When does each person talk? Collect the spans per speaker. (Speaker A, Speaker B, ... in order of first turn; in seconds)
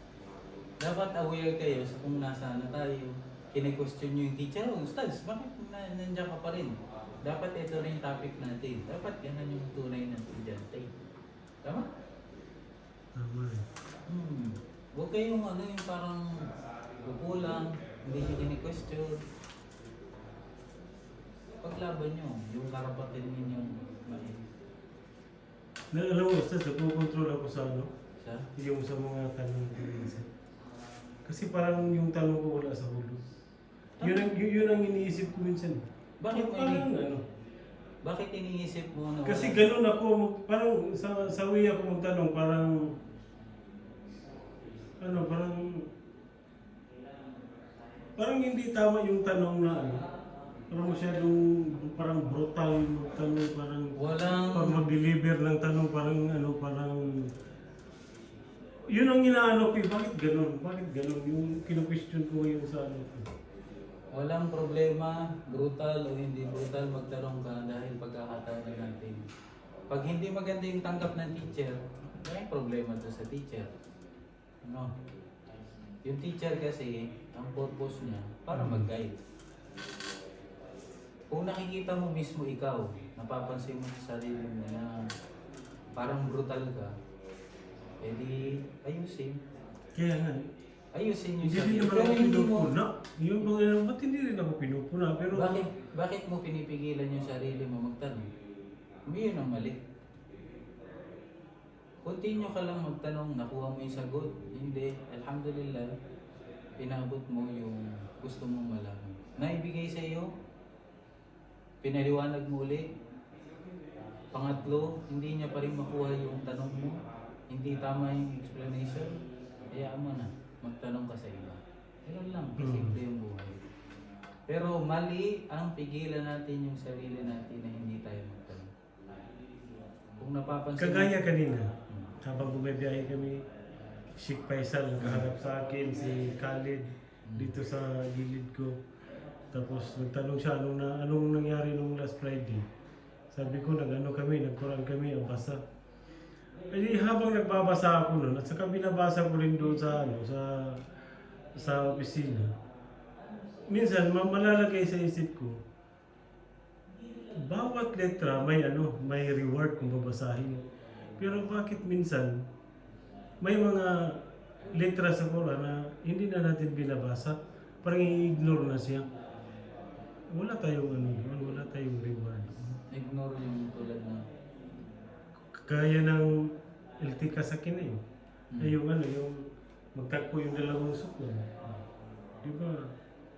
Speaker A: 0.8-10.9, 14.1-16.5, 17.1-19.2, 21.6-24.4, 28.2-28.5, 34.0-34.3, 36.2-36.9, 38.0-39.7, 54.0-54.8, 64.1-69.2, 69.9-73.7, 74.6-74.9, 76.0-79.2, 81.3-85.1, 86.0-87.0, 88.0-89.4, 90.9-92.7, 95.3-98.3, 99.1-99.8, 102.0-105.9, 106.8-110.3, 111.8-112.9, 114.3-117.0, 117.5-119.2, 119.7-123.6, 124.5-128.7, 130.2-131.3, 137.3-137.5, 172.7-174.3
Speaker B: 13.2-13.7, 25.9-27.9, 28.6-30.3, 31.2-33.2, 34.0-37.2, 39.3-42.7, 45.0-45.8, 48.2-50.0, 50.7-57.1, 58.9-63.3, 78.5-78.9, 90.0-90.5, 91.4-95.7, 122.6-123.0, 130.8-131.7, 132.2-133.4, 134.2-138.8, 139.5-142.7, 143.3-145.6, 146.7-150.8, 151.6-152.5, 153.7-155.6, 157.4-160.6, 161.2-162.4, 163.4-164.2, 164.7-169.1, 170.3-172.6, 175.5-176.3, 177.0-178.0, 178.6-179.4, 179.9-181.5, 182.4-182.9